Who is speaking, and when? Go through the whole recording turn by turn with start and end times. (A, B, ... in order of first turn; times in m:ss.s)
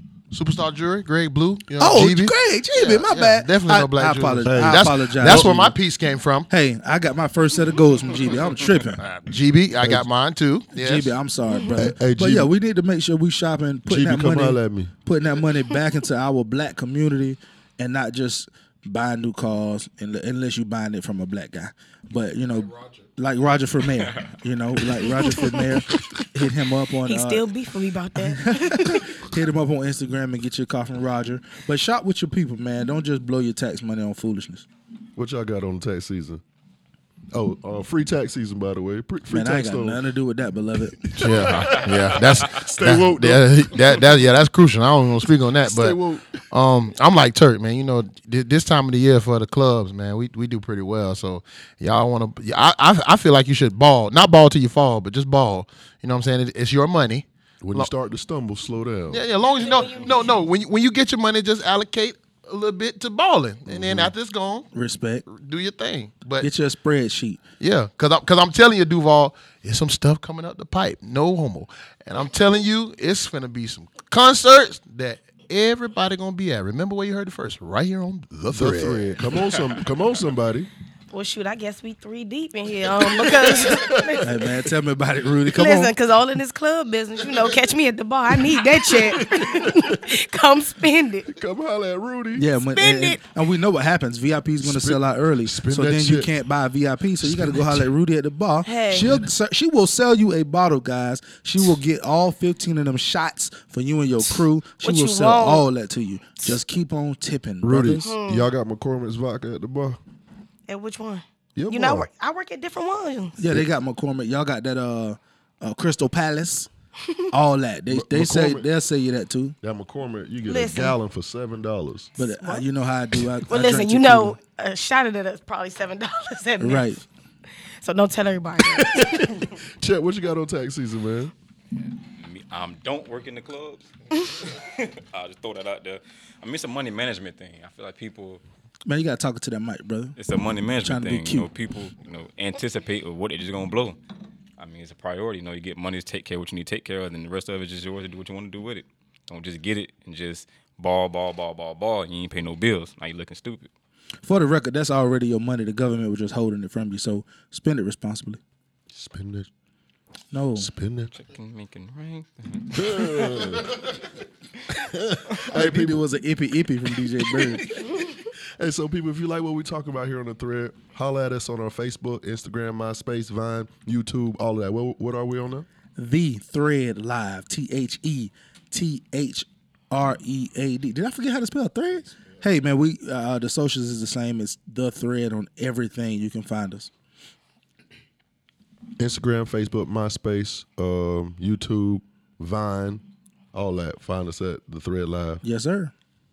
0:00.3-0:06.5 A
0:01.8-0:05.7 B
0:04.4-0:05.8 C
0:06.5-0:09.0 B
0:09.0-0:11.1 A
0:10.8-0:27.5 B
0:11.8-0:12.5 C
0:13.9-0:14.9 C
0:24.1-0:24.3 D
0:25.2-0:26.2 E
0:27.0-0:29.2 E
0:28.2-0:34.7 B
0:35.2-0:36.4 C
0:37.3-0:40.0 C
0:39.3-0:41.1 B
0:41.0-0:44.1 C
0:41.2-0:46.0 A
0:41.5-0:41.9 D
0:45.6-0:46.5 C
0:46.5-0:57.9 A
0:57.6-0:59.3 C
0:59.1-1:04.7 A
0:59.6-1:00.3 E
1:03.7-1:04.1 C
1:04.7-1:05.2 B
1:05.3-1:06.5 A
1:06.4-1:07.4 B
1:07.6-1:19.3 A
1:18.5-1:20.7 C
1:21.1-1:24.4 E
1:23.0-1:24.3 C
1:24.2-1:25.9 B
1:25.5-1:31.3 E
1:28.8-1:30.1 C
1:31.3-1:32.5 C
1:32.3-1:48.1 B
1:32.6-1:33.2 E
1:34.6-1:36.3 C
1:37.2-1:37.9 C
1:38.6-1:39.2 E
1:44.8-1:45.6 E
1:47.6-1:50.0 C
1:48.0-1:48.5 E
1:50.7-1:53.4 E
1:51.6-1:52.1 C
1:53.4-1:56.7 B
1:57.3-1:59.6 B
1:57.9-1:58.7 C
1:59.6-2:02.2 C
2:00.5-2:01.0 E
2:02.2-2:04.4 B
2:02.2-2:02.7 E
2:03.5-2:07.0 E
2:06.6-2:07.0 B
2:07.8-2:09.3 E
2:08.6-2:11.3 C
2:11.8-2:18.4 D
2:18.8-2:20.2 B
2:20.2-2:24.0 D
2:20.8-2:21.5 B
2:24.6-2:33.7 D
2:34.2-2:38.4 B
2:38.9-2:39.5 C
2:40.3-2:40.7 B
2:40.6-2:41.1 C
2:41.1-2:43.5 D
2:42.7-2:44.0 C
2:44.7-2:46.0 C
2:45.4-2:47.8 B
2:47.4-2:55.7 C
2:56.0-3:06.9 B
3:09.0-3:15.4 C
3:15.4-3:15.9 B